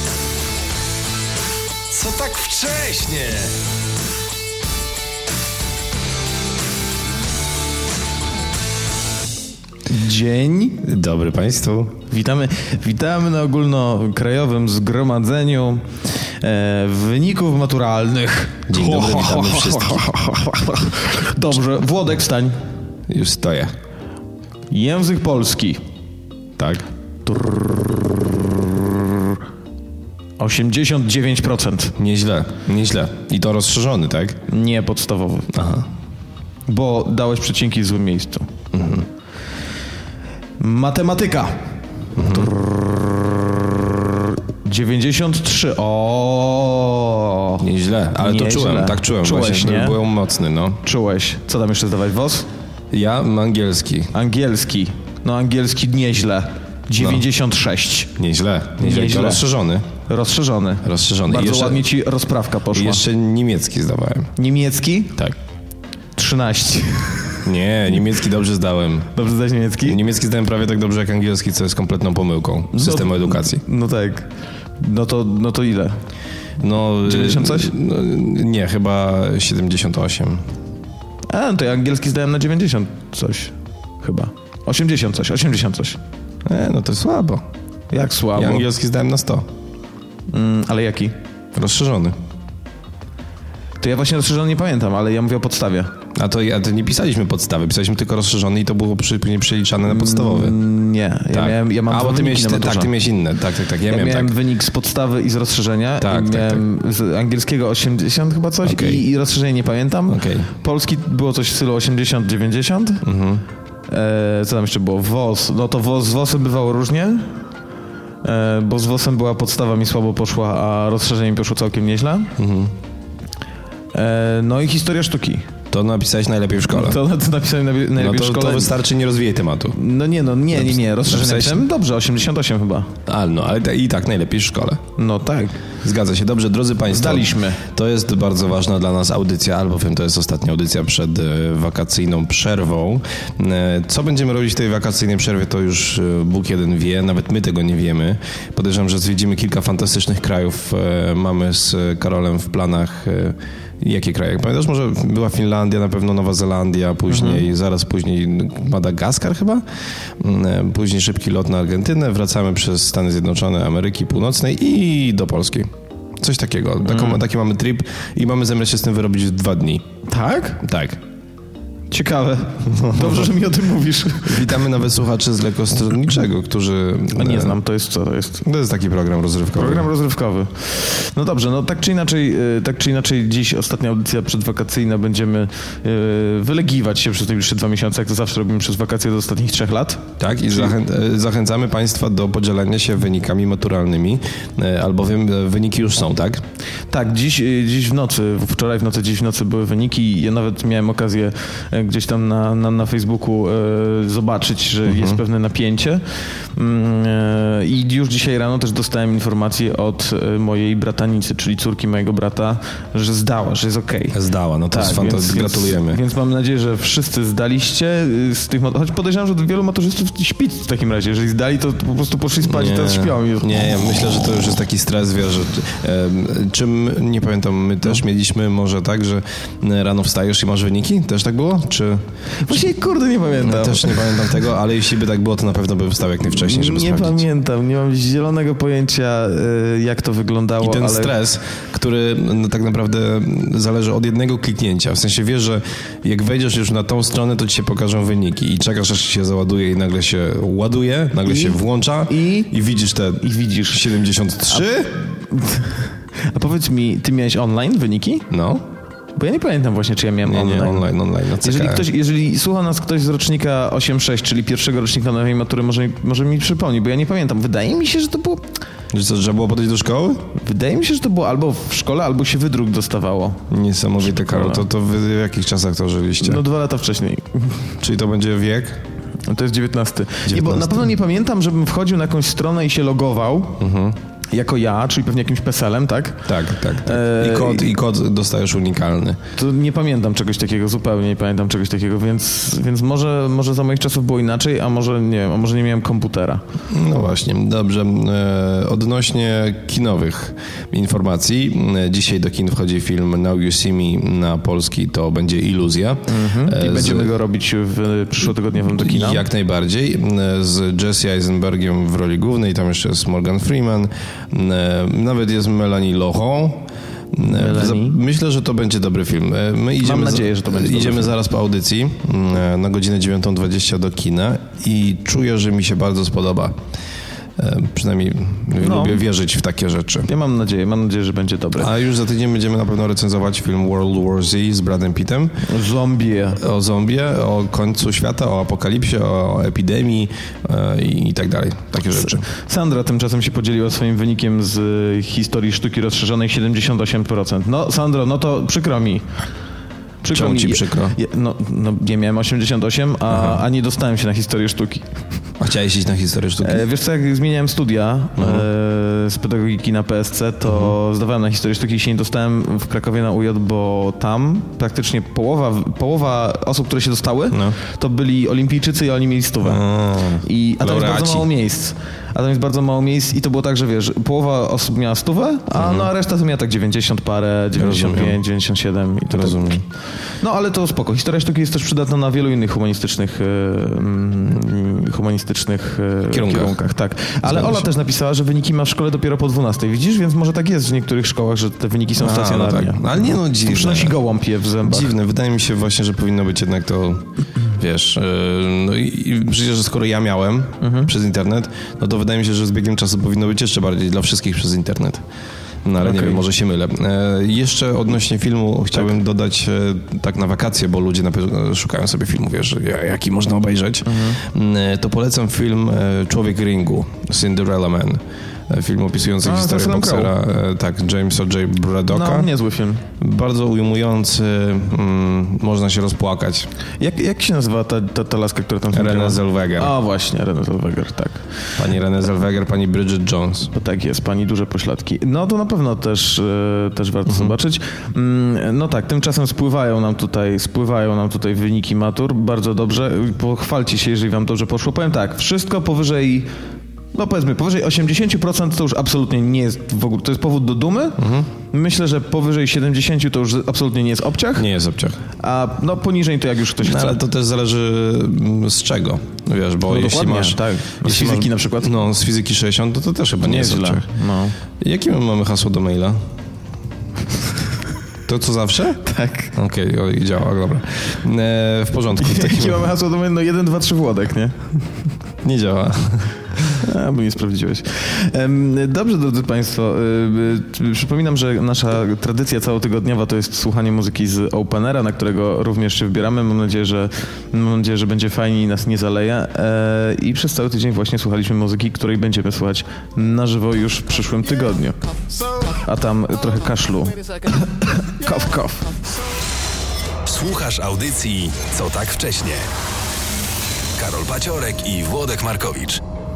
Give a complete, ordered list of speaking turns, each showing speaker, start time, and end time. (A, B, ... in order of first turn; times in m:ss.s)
0:01.9-0:03.5 A
0:09.9-0:10.8 B
0:10.8-0:12.0 C
0:12.1-0:15.8 B
0:16.4-0:22.6 B
0:18.7-0:20.1 C
0:23.1-0:23.7 C
0:24.7-0:25.8 B
0:26.6-0:26.8 C
0:27.2-0:29.4 B
0:30.4-0:32.0 B
0:32.0-0:34.4 C
0:34.5-0:35.5 B
0:35.5-0:35.8 C
0:36.7-0:38.5 B
0:38.7-0:39.0 C
0:40.6-0:50.0 B
0:42.2-0:42.5 C
0:47.6-0:50.8 C
0:50.8-0:52.5 B
0:52.9-0:54.1 C
0:54.1-0:58.1 B
0:57.0-0:57.2 C
0:58.2-0:59.9 C
0:58.8-0:59.5 B
1:00.1-1:03.0 B
1:00.8-1:01.8 C
1:02.7-1:04.3 C
1:04.4-1:05.3 B
1:06.2-1:07.4 B
1:07.4-1:09.1 C
1:09.1-1:10.0 B
1:09.8-1:13.6 C
1:12.7-1:16.0 B
1:16.6-1:20.4 C
1:17.0-1:17.7 B
1:21.3-1:26.0 B
1:26.4-1:27.4 C
1:27.9-1:28.6 B
1:28.3-1:29.5 C
1:30.3-1:31.2 B
1:31.5-1:32.2 C
1:33.8-1:35.9 B
1:36.1-1:40.6 C
1:39.8-1:42.9 B
1:41.3-1:44.3 C
1:43.9-1:53.0 B
1:46.0-1:46.6 C
1:48.6-1:49.0 C
1:50.1-1:50.5 C
1:53.0-1:53.4 C
1:53.9-1:57.3 B
1:58.2-2:02.3 B
2:02.4-2:02.7 C
2:03.9-2:05.5 B
2:05.7-2:07.0 C
2:06.7-2:08.7 B
2:08.0-2:09.8 C
2:09.7-2:12.9 B
2:10.5-2:11.6 C
2:13.1-2:14.8 C
2:15.0-2:15.6 B
2:15.8-2:39.6 C
2:16.9-2:17.6 B
2:37.1-2:37.4 B
2:40.2-2:49.8 C
2:46.9-2:47.2 B
2:50.0-2:50.6 B
2:50.6-2:51.0 C
2:51.9-2:54.6 B
2:52.6-2:53.3 C
2:54.2-2:57.6 C
2:57.1-2:58.4 B
2:58.4-2:59.9 C
2:59.5-3:10.7 B
3:10.2-3:16.4 C
3:16.9-3:26.0 B
3:24.8-3:25.2 C
3:26.5-3:34.2 B
3:34.1-3:36.0 C
3:34.7-3:43.5 B
3:42.4-3:52.6 C
3:52.4-3:54.5 B
3:53.4-3:57.2 C
3:56.2-4:01.1 B
4:00.6-4:15.0 C
4:11.2-4:12.5 B
4:13.2-4:13.8 B
4:14.5-4:18.3 B
4:18.3-4:18.6 C
4:19.2-4:20.9 B
4:20.2-4:21.9 C
4:21.4-4:28.4 B
4:28.9-4:30.3 C
4:30.3-4:33.4 B
4:33.5-4:36.4 C
4:34.1-4:34.6 B
4:36.2-4:37.7 B
4:37.8-4:38.8 C
4:39.3-4:43.6 B
4:40.2-4:40.9 C
4:43.6-4:44.0 C
4:44.3-4:46.3 B
4:46.2-4:49.2 C
4:46.8-4:47.7 B
4:49.4-4:56.4 B
4:56.7-5:07.1 C
5:06.1-5:09.2 B
5:08.6-5:26.6 C
5:17.2-5:18.0 B
5:19.8-5:21.1 B
5:27.4-5:30.1 C
5:28.6-5:29.0 B
5:30.1-5:31.7 B
5:31.6-5:35.4 C
5:35.4-5:36.4 B
5:36.4-5:42.3 C
5:41.9-5:49.1 B
5:50.0-5:54.9 B
5:50.1-5:51.0 C
5:53.1-5:53.4 C
5:55.4-5:56.6 C
5:56.4-6:09.6 B
5:58.2-5:58.5 C
6:00.5-6:00.7 C
6:07.3-6:07.6 C
6:09.4-6:11.3 C
6:10.2-6:19.6 B
6:15.5-6:15.9 C
6:17.5-6:18.2 C
6:19.1-6:19.6 C
6:20.2-6:34.9 B
6:26.1-6:26.6 C
6:27.2-6:27.7 C
6:32.0-6:34.0 C
6:34.6-6:45.0 C
6:40.6-6:40.9 B
6:45.6-7:02.3 C
6:45.8-6:46.2 B
6:53.8-6:54.2 B
6:59.2-7:00.1 B
7:01.9-7:02.8 B
7:03.0-7:06.5 C
7:06.8-7:11.2 B
7:08.7-7:09.7 C
7:11.6-7:13.5 C
7:13.5-7:26.3 B
7:17.1-7:17.3 C
7:26.9-7:34.5 B
7:31.0-7:31.3 C
7:34.3-7:35.0 C
7:35.2-7:37.0 B
7:36.6-7:43.9 C
7:39.7-7:41.7 B
7:43.2-7:44.3 B
7:44.6-7:46.0 C
7:48.1-7:48.8 C
7:48.8-7:49.3 B
7:49.3-7:52.6 C
7:52.0-7:54.6 B
7:55.2-7:56.1 C
7:56.5-8:14.8 B
8:15.5-8:18.7 B
8:20.0-8:22.5 A
8:23.8-8:25.8 A